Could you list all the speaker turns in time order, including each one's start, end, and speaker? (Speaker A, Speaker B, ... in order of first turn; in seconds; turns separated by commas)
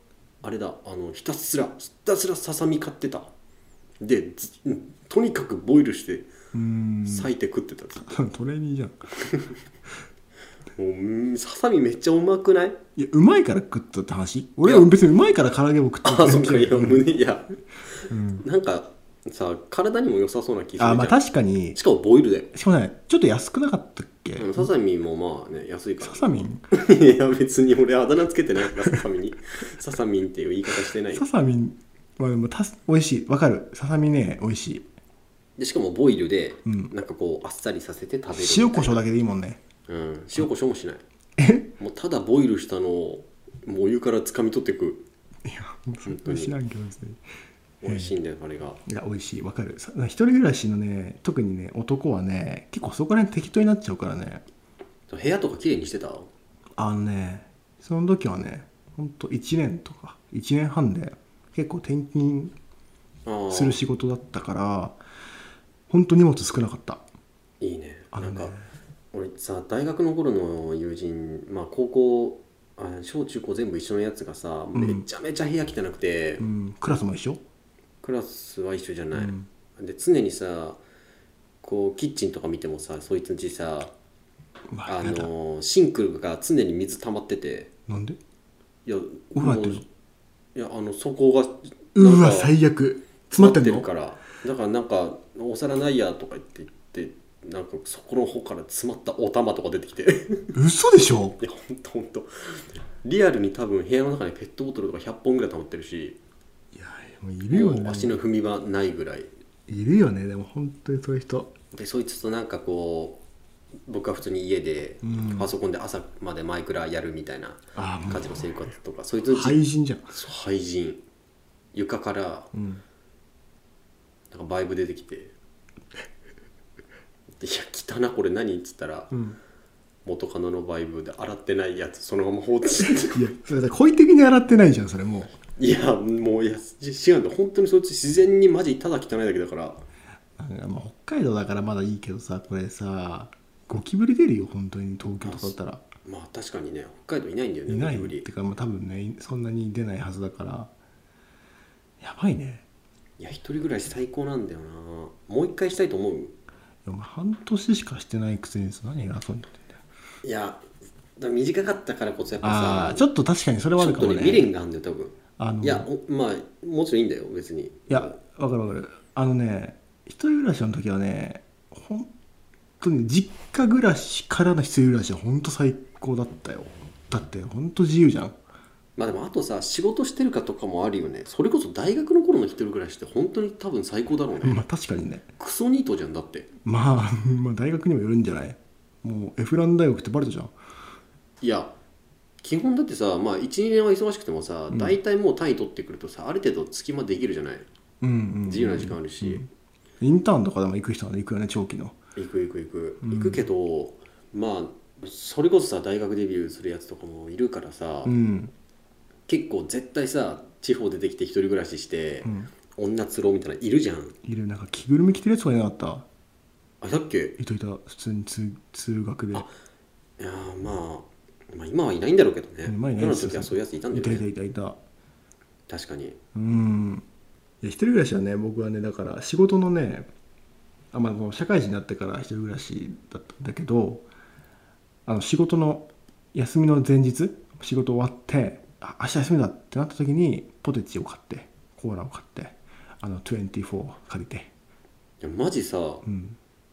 Speaker A: 0.4-3.3, Speaker A: 4.0-6.3, Speaker B: 6.5-7.3, Speaker A: 7.0-8.2, Speaker B: 8.0-9.1, Speaker A: 9.2-9.5, Speaker A: 10.8-12.8, Speaker B: 12.9-17.1, Speaker A: 14.6-14.9, Speaker A: 16.0-21.2, Speaker B: 18.1-18.4, Speaker B: 20.8-21.8, Speaker A: 21.7-22.5, Speaker B: 22.5-24.7, Speaker A: 24.4-31.2, Speaker B: 26.0-26.6, Speaker B: 31.1-34.9, Speaker A: 35.6-39.0, Speaker B: 36.6-36.9, Speaker B: 38.3-39.6, Speaker A: 39.9-41.0, Speaker B: 41.4-41.7, Speaker A: 41.8-45.0, Speaker B: 45.4-47.2, Speaker A: 46.0-46.5, Speaker A: 47.8-48.8, Speaker B: 47.8-48.1, Speaker B: 48.9-54.4, Speaker A: 55.1-56.3, Speaker B: 56.8-62.5, Speaker A: 63.2-63.8, Speaker B: 63.5-65.0, Speaker B: 65.9-67.0, Speaker A: 67.6-68.5, Speaker B: 68.1-68.6, Speaker A: 69.1-76.5, Speaker B: 74.7-75.0, Speaker B: 76.4-77.4, Speaker A: 78.0-80.8, Speaker B: 79.1-79.5, Speaker A: 81.6-83.9, Speaker B: 84.7-85.3, Speaker A: 84.9-87.7, Speaker B: 87.9-88.2, Speaker A: 88.8-89.8, Speaker B: 89.3-89.8, Speaker A: 90.5-92.5, Speaker B: 91.9-93.8, Speaker A: 93.3-100.5, Speaker B: 100.5-101.4, Speaker A: 101.4-106.2, Speaker B: 106.7-108.1, Speaker A: 107.5-109.3, Speaker B: 109.7-111.5, Speaker A: 111.7-113.2, Speaker A: 113.9-121.0, Speaker B: 115.0-115.5, Speaker B: 117.7-118.5, Speaker B: 119.3-120.1, Speaker A: 121.7-122.5, Speaker B: 122.5-122.8, Speaker A: 124.3-125.3, Speaker A: 127.4-129.2, Speaker B: 129.1-129.4, Speaker A: 130.0-133.2, Speaker B: 132.8-135.3, Speaker A: 135.6-139.8, Speaker B: 140.4-145.8, Speaker A: 145.2-148.2, Speaker B: 147.7-150.7, Speaker B: 152.0-152.6, Speaker A: 153.2-156.3, Speaker B: 156.8-159.8, Speaker A: 160.2-160.6, Speaker A: 161.2-163.1, Speaker B: 162.4-164.5, Speaker A: 163.8-168.2, Speaker B: 165.4-165.9, Speaker B: 167.9-172.1, Speaker B: 172.8-178.3, Speaker A: 179.0-184.6, Speaker B: 184.4-185.2, Speaker A: 185.4-186.5, Speaker B: 186.6-190.5, Speaker A: 191.4-191.7, Speaker A: 192.4-197.7, Speaker B: 194.7-195.0, Speaker B: 198.0-199.4, Speaker A: 198.4-199.4, Speaker B: 200.0-202.0, Speaker A: 202.2-208.1, Speaker B: 203.0-203.4, Speaker B: 208.0-208.5, Speaker A: 209.3-214.2, Speaker B: 212.2-212.5, Speaker B: 214.2-216.1, Speaker A: 216.8-217.3, Speaker B: 217.4-219.5, Speaker A: 220.2-224.2, Speaker B: 222.7-224.8, Speaker A: 225.7-226.2, Speaker B: 226.3-227.0, Speaker B: 227.6-230.1, Speaker B: 230.9-234.1, Speaker B: 235.1-244.5, Speaker A: 245.2-246.0, Speaker B: 246.0-246.4